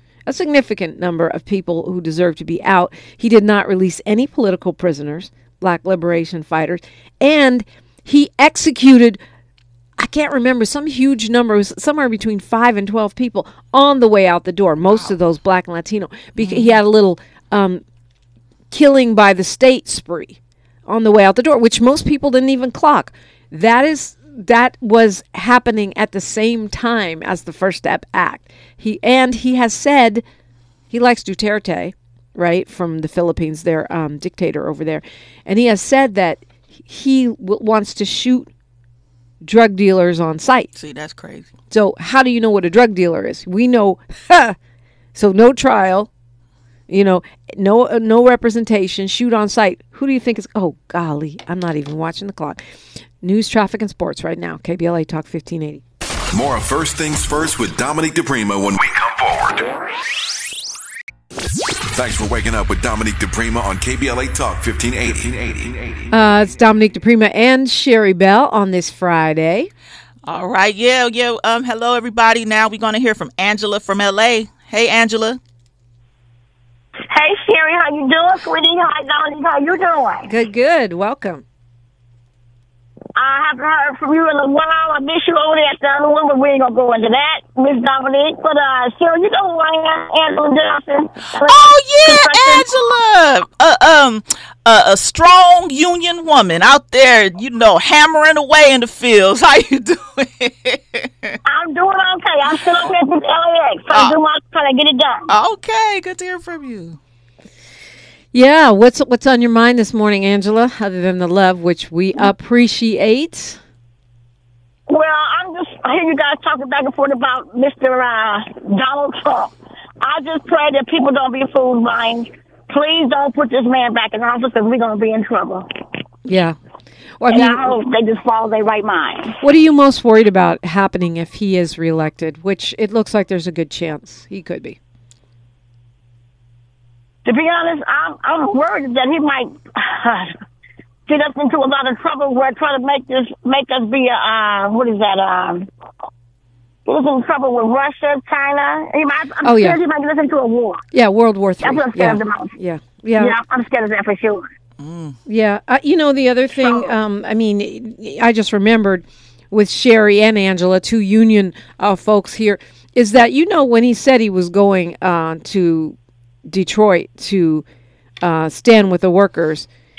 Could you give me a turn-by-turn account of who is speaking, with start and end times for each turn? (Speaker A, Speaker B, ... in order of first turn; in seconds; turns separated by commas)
Speaker A: 0.3-9.2, Speaker A: 10.0-17.8, Speaker B: 16.4-16.8, Speaker A: 18.7-30.2, Speaker A: 30.9-38.5, Speaker A: 39.4-40.7, Speaker B: 40.7-41.5, Speaker A: 41.7-44.5, Speaker A: 45.1-46.1, Speaker A: 46.9-52.6, Speaker A: 53.2-55.8, Speaker C: 56.3-59.7, Speaker C: 61.9-66.1, Speaker A: 66.1-69.7, Speaker B: 70.2-75.4, Speaker D: 77.1-80.3, Speaker A: 80.3-81.4, Speaker D: 83.2-92.7, Speaker B: 91.4-101.4, Speaker D: 101.5-105.3, Speaker B: 105.3-107.0, Speaker A: 108.3-113.6, Speaker D: 114.9-125.7, Speaker A: 126.2-126.6, Speaker A: 127.2-127.7, Speaker D: 127.3-129.4, Speaker A: 129.4-134.8, Speaker D: 137.2-140.3, Speaker D: 141.1-145.7, Speaker D: 146.8-150.8, Speaker A: 149.4-149.8, Speaker A: 150.9-153.3, Speaker D: 151.6-152.5, Speaker D: 153.2-154.4, Speaker B: 154.8-155.2, Speaker A: 155.2-165.9, Speaker D: 156.6-156.9, Speaker A: 166.5-167.6, Speaker A: 168.2-169.7